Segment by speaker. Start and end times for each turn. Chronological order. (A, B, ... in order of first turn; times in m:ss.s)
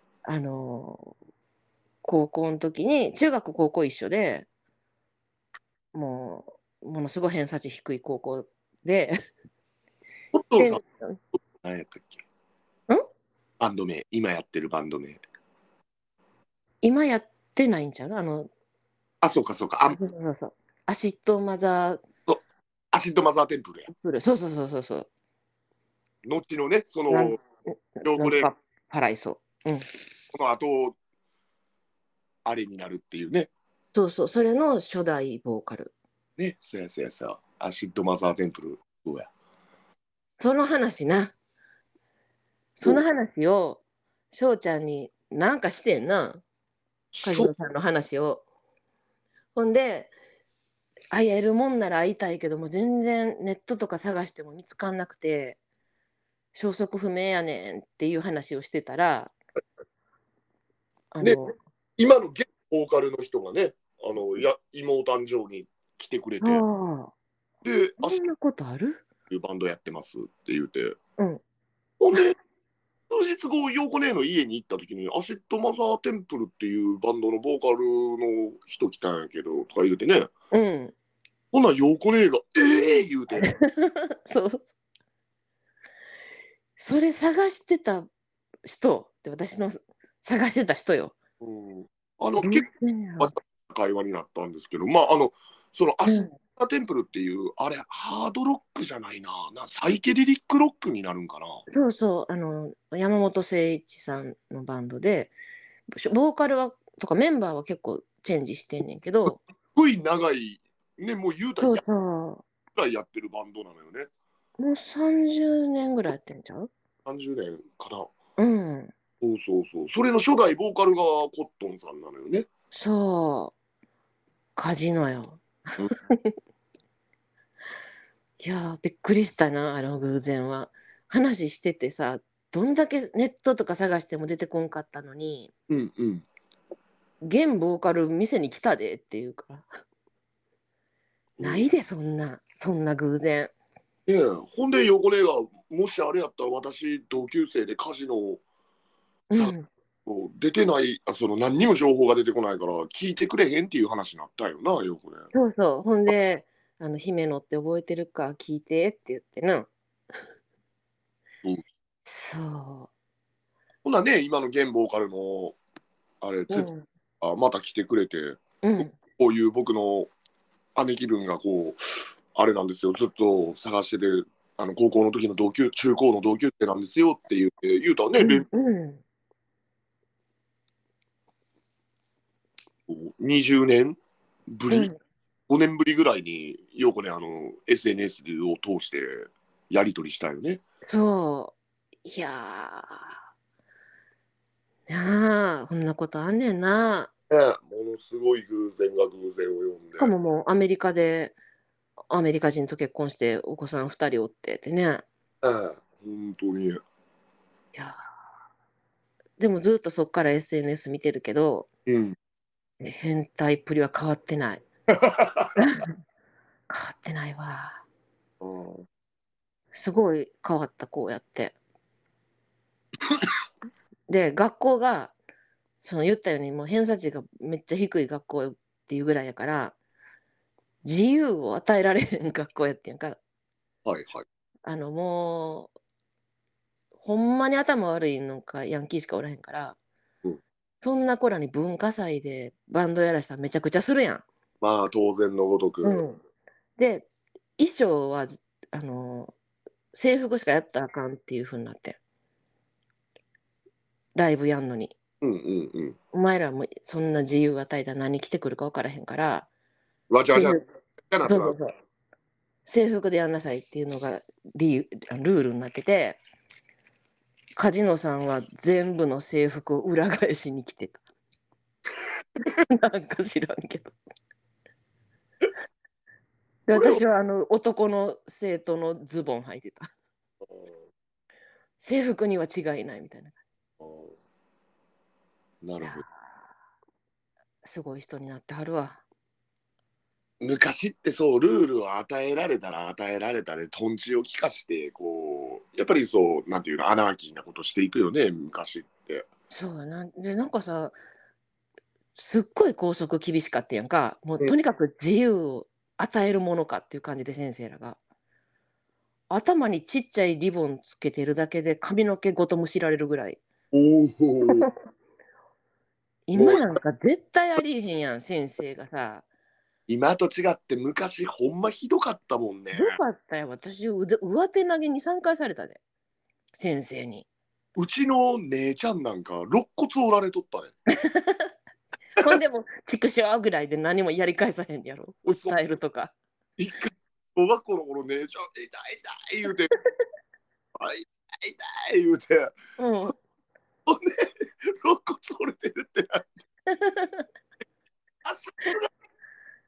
0:00.3-0:01.1 A
0:02.0-0:04.5 A
0:05.9-0:09.2 A
0:10.3-0:10.8 B
0:10.6-0:11.2 A
0:11.4-0:12.2 B
0:13.6-0:15.2 B
0:16.8-0:18.5 A
0:19.2-0:20.0 B
0:19.9-0:22.0 A
0:22.9-0:23.9 B
0:23.9-0:25.1 A
0:26.2-0:27.4 B
0:27.1-0:29.9 A
0:28.0-0:28.5 B
0:30.3-0:31.0 B
0:32.4-0:33.5 B
0:33.9-0:35.9 A
0:36.4-0:39.3 B
0:40.4-0:41.3 A
0:42.8-0:46.4 A
0:47.1-0:47.5 B
0:47.2-0:48.4 A
0:49.6-0:50.1 A
0:51.1-0:55.6 A
0:56.5-0:59.4 A
1:01.1-1:01.5 A
1:02.0-1:06.6 B
1:06.4-1:07.1 A
1:07.6-1:08.2 B
1:08.0-1:09.0 A
1:09.3-1:11.0 B
1:12.0-1:12.4 B
1:13.1-1:20.3 B
1:20.5-1:20.9 A
1:21.5-1:23.5 B
1:23.3-1:24.7 A
1:26.8-1:28.1 A
1:28.6-1:31.2 A
1:31.4-1:32.7 B
1:32.4-1:33.3 A
1:33.2-1:41.6 B
1:36.1-1:36.3 A
1:41.7-1:45.3 A
1:45.9-1:49.4 A
1:49.8-1:51.8 B
1:51.6-1:52.4 A
1:52.8-1:54.1 B
1:54.6-1:56.7 A
1:57.0-1:58.1 B
1:58.4-1:58.9 A
1:59.2-2:02.5 B
2:02.7-2:03.6 A
2:04.6-2:06.3 A
2:08.4-2:15.5 A
2:15.7-2:16.2 B
2:17.2-2:19.7 A
2:21.4-2:21.7 B
2:21.4-2:23.5 A
2:24.1-2:28.4 B
2:29.3-2:29.7 A
2:30.1-2:35.3 B
2:35.3-2:39.7 A
2:42.1-2:42.9 A
2:43.8-2:45.6 B
2:46.2-2:46.7 B
2:46.5-2:46.8 A
2:47.2-2:50.1 B
2:48.6-2:49.0 A
2:50.8-2:58.5 B
2:58.2-2:59.0 A
3:02.9-3:04.0 B
3:04.5-3:04.9 B
3:04.7-3:05.0 A
3:05.5-3:10.6 B
3:10.9-3:13.1 A
3:14.9-3:17.1 A
3:17.3-3:20.1 B
3:20.0-3:21.4 A
3:22.1-3:25.0 A
3:25.4-3:26.8 B
3:29.4-3:31.7 A
3:31.9-3:32.2 B
3:32.8-3:34.6 A
3:34.9-3:35.6 B
3:35.6-3:35.9 A
3:36.7-3:37.8 A
3:38.4-3:38.9 B
3:39.7-3:41.6 A
3:44.1-3:45.1 A
3:45.8-3:49.8 A
3:50.8-3:53.2 A
3:53.8-3:54.2 B
3:54.6-3:55.7 A
3:57.0-3:59.8 A
4:00.8-4:04.2 A
4:04.6-4:06.0 B
4:05.8-4:06.2 A
4:06.8-4:09.3 A
4:09.9-4:12.0 A
4:14.2-4:15.0 A
4:15.2-4:16.0 B
4:16.1-4:19.5 A
4:20.1-4:20.6 B
4:20.3-4:20.6 A
4:21.1-4:21.6 B
4:21.2-4:21.7 A
4:22.7-4:26.2 A
4:27.6-4:31.0 A
4:32.6-4:34.0 A
4:36.7-4:39.9 A
4:36.7-4:37.0 B
4:40.4-4:40.8 B
4:41.8-4:43.4 A
4:43.8-4:44.2 B
4:45.6-4:46.0 B
4:45.8-4:46.1 A
4:47.6-4:49.0 A
4:50.4-4:59.3 B
4:59.5-5:01.0 A
5:02.2-5:08.0 A
5:09.3-5:13.4 A
5:13.7-5:14.7 B
5:16.3-5:19.2 A
5:16.4-5:16.6 B
5:19.9-5:23.0 B
5:22.7-5:25.8 A
5:26.6-5:27.3 A
5:27.8-5:30.7 B
5:30.9-5:31.5 A
5:32.2-5:36.2 A
5:35.2-5:35.6 B
5:36.6-5:39.7 B
5:40.8-5:42.6 B
5:42.8-5:43.2 A
5:43.9-5:46.3 B
5:46.7-5:47.3 A
5:48.2-5:48.9 B